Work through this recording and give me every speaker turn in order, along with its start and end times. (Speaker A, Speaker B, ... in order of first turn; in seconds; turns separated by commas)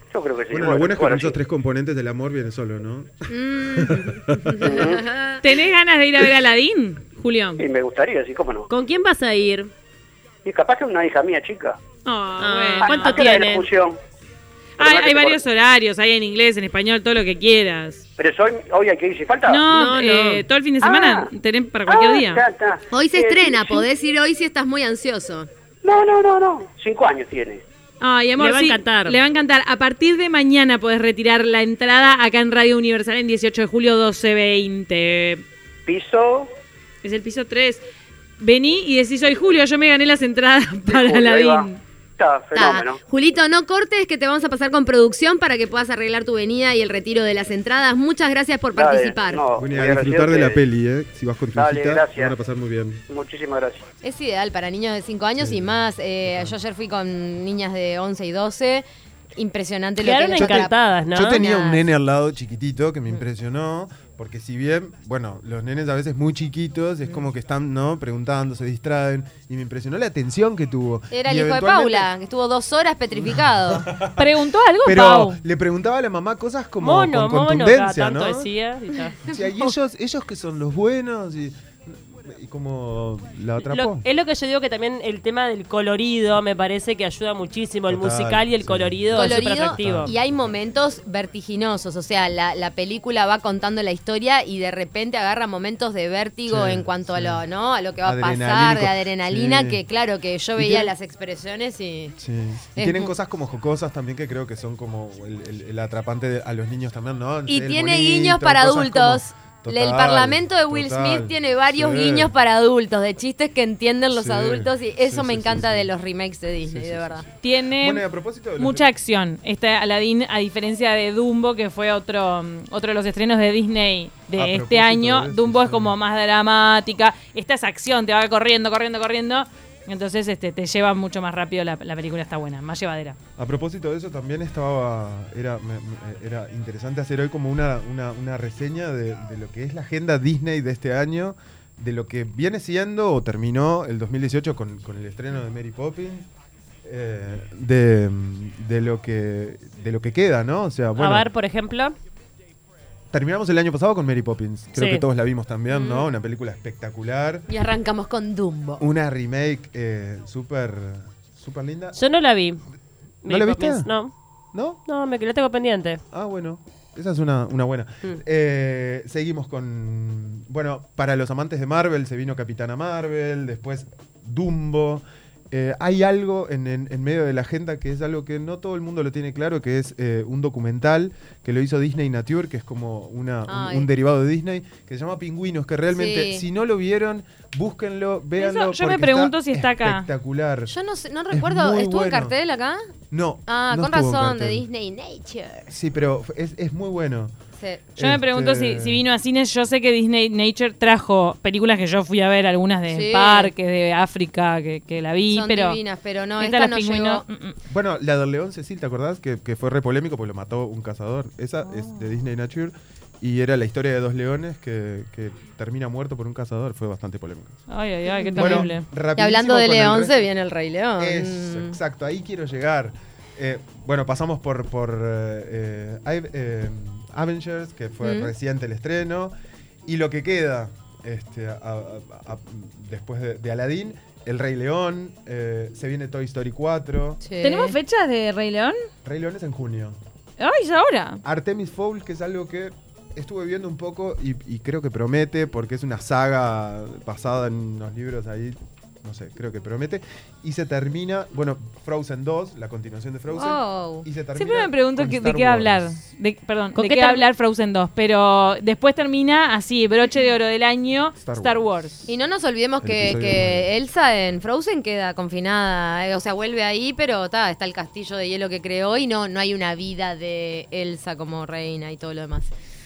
Speaker A: 0.1-1.4, Speaker B: 0.5-4.7, Speaker C: 3.3-5.4, Speaker A: 4.6-5.0, Speaker D: 5.4-7.6, Speaker A: 7.6-8.7, Speaker E: 8.7-9.7, Speaker A: 10.4-11.8, Speaker D: 12.0-13.2, Speaker E: 12.4-13.7, Speaker A: 12.8-14.0, Speaker D: 14.8-18.0, Speaker A: 14.8-15.4, Speaker A: 18.2-19.6, Speaker D: 19.5-22.4, Speaker E: 19.7-20.4, Speaker A: 20.8-21.3, Speaker A: 21.9-23.8, Speaker C: 22.9-25.5, Speaker A: 25.8-27.6, Speaker D: 28.0-35.4, Speaker E: 28.4-29.2, Speaker A: 35.9-36.5, Speaker D: 37.0-37.8, Speaker D: 38.4-41.8, Speaker A: 40.9-41.7, Speaker A: 42.2-43.0, Speaker C: 42.5-49.4, Speaker A: 48.7-50.6, Speaker B: 49.5-53.0, Speaker A: 51.5-52.3, Speaker A: 53.1-53.8, Speaker C: 54.0-58.8, Speaker B: 55.4-55.7, Speaker B: 56.2-56.5, Speaker C: 59.4-60.7, Speaker E: 60.0-61.4, Speaker B: 60.4-72.1, Speaker C: 61.3-61.9, Speaker C: 71.1-73.9, Speaker B: 73.1-74.3, Speaker D: 74.1-75.4, Speaker B: 74.8-78.5, Speaker E: 76.8-79.2, Speaker B: 79.2-84.0, Speaker E: 83.6-90.1, Speaker B: 87.9-90.3, Speaker C: 89.1-102.2, Speaker B: 96.5-97.4, Speaker B: 98.0-99.8, Speaker B: 100.5-100.9, Speaker B: 102.2-112.3, Speaker C: 102.8-103.1, Speaker C: 107.5-117.2, Speaker B: 114.1-115.9, Speaker B: 116.6-117.2, Speaker D: 117.4-118.0, Speaker B: 117.8-118.8, Speaker D: 118.6-133.2, Speaker B: 124.3-126.0, Speaker B: 133.4-146.3, Speaker B: 146.8-151.3, Speaker E: 150.9-151.9, Speaker B: 153.1-157.5, Speaker E: 154.8-155.0, Speaker C: 157.5-158.8, Speaker B: 158.8-162.0, Speaker E: 161.9-162.6, Speaker E: 163.2-164.1, Speaker B: 163.3-163.9, Speaker B: 164.5-164.8, Speaker E: 164.8-166.0, Speaker B: 166.1-190.7, Speaker C: 183.4-183.9, Speaker C: 185.9-186.4, Speaker D: 188.4-190.1, Speaker C: 190.7-192.8, Speaker B: 191.3-192.3, Speaker B: 193.1-194.6, Speaker C: 193.5-195.7, Speaker B: 195.7-197.3, Speaker C: 197.6-197.9, Speaker B: 197.9-199.0, Speaker D: 198.0-205.8, Speaker C: 202.9-203.5, Speaker C: 205.3-207.2, Speaker D: 206.4-207.6, Speaker B: 207.7-217.6, Speaker D: 211.7-212.1, Speaker D: 217.7-218.8, Speaker C: 218.1-221.8, Speaker B: 218.3-220.3, Speaker B: 221.0-229.3, Speaker C: 228.0-228.3, Speaker B: 229.8-237.2, Speaker C: 237.2-237.8, Speaker D: 237.4-238.7, Speaker B: 239.0-240.0, Speaker D: 240.4-241.2, Speaker B: 241.2-255.9, Speaker C: 253.3-254.1, Speaker D: 254.3-261.9, Speaker E: 256.7-257.3, Speaker B: 261.2-261.7, Speaker C: 262.1-272.5, Speaker B: 262.8-263.7